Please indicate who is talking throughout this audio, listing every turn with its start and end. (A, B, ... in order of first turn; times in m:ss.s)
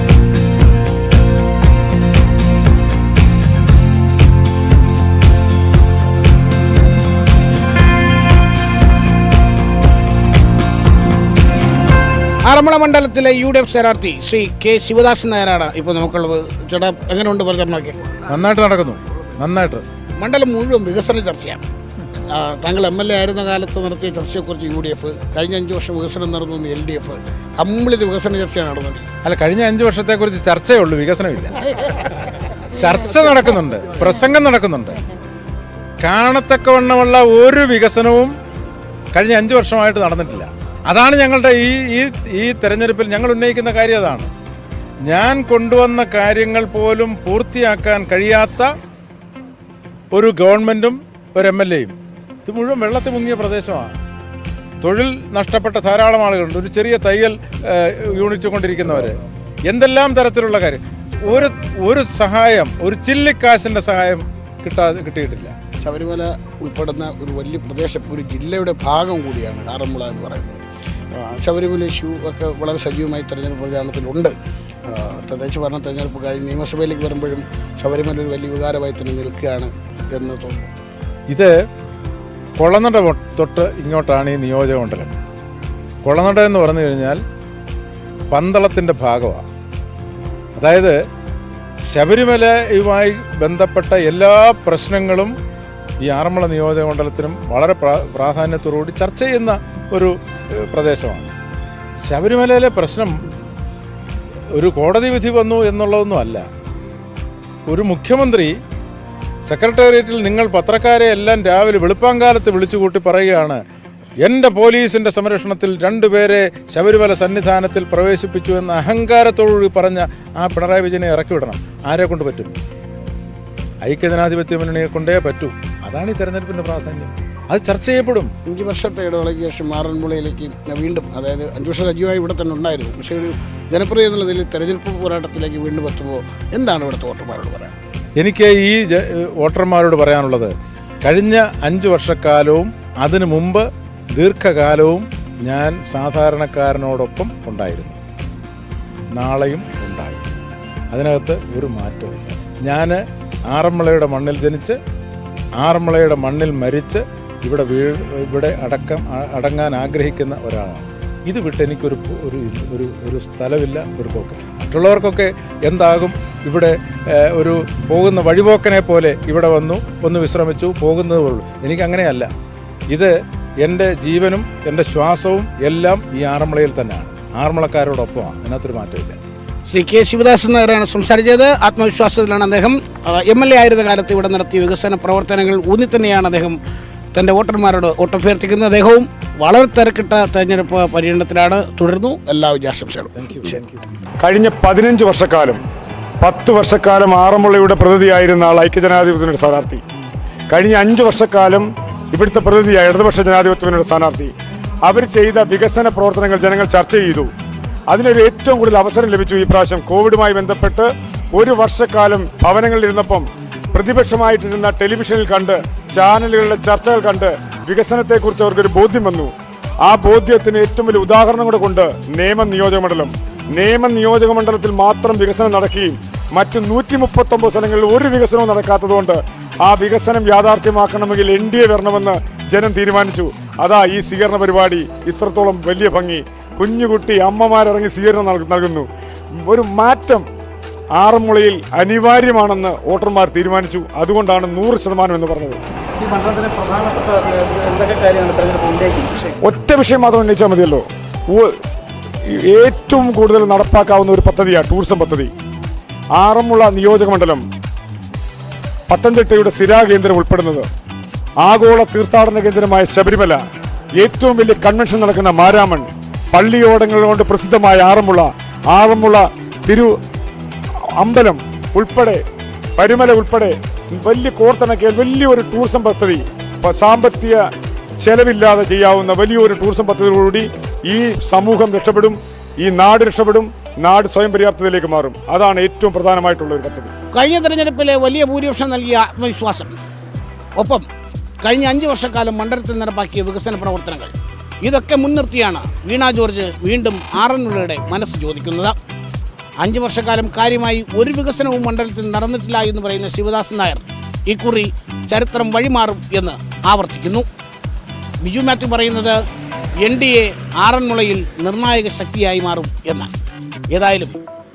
0:12.4-0:18.0 A
0:18.3-0:19.8 B
0:20.2-0:21.6 A
0:22.3-0:29.0 A
0:29.2-0:31.6 B
0:32.8-0:35.0 B
0:36.0-0:38.3 B
0:39.1-0:44.3 B
0:45.1-0:48.7 B
0:50.1-0:51.9 B
0:52.4-0:53.9 B
0:54.8-0:59.2 B
0:59.7-1:05.5 B
1:05.8-1:14.3 A
1:14.8-1:20.7 A
1:22.6-1:25.1 B
1:26.0-1:27.2 B
1:28.3-1:29.4 B
1:30.6-1:30.9 B
1:31.9-1:35.3 B
1:36.0-1:41.3 B
1:42.0-1:43.1 B
1:44.5-1:46.4 B
1:47.7-1:48.5 B
1:49.5-1:53.6 B
1:54.2-2:02.5 B
2:03.8-2:08.3 B
2:08.5-2:17.7 A
2:18.2-2:28.0 B
2:29.2-2:30.2 B
2:30.9-2:34.8 B
2:35.6-2:52.3 B
2:52.9-2:59.2 B
2:59.7-3:06.6 A
3:07.1-3:13.5 A
3:13.2-3:13.8 B
3:14.2-3:15.6 C
3:16.2-3:19.8 C
3:20.5-3:24.3 C
3:24.8-3:27.3 C
3:27.9-3:39.3 C
3:39.8-3:58.9 C
3:59.5-4:00.2 C
4:01.0-4:05.6 C
4:06.1-4:11.5 C
4:12.3-4:15.3 C
4:16.2-4:17.4 C
4:18.9-4:20.7 C
4:21.4-4:23.4 C
4:24.0-4:29.9 C
4:31.0-4:32.2 C
4:32.8-4:37.4 C
4:38.0-4:46.9 C
4:47.1-4:49.7 A
4:50.6-4:50.8 A
4:51.4-4:58.8 A
4:59.6-5:07.3 A
5:08.2-5:09.2 A
5:09.8-5:13.1 A
5:13.7-5:14.2 A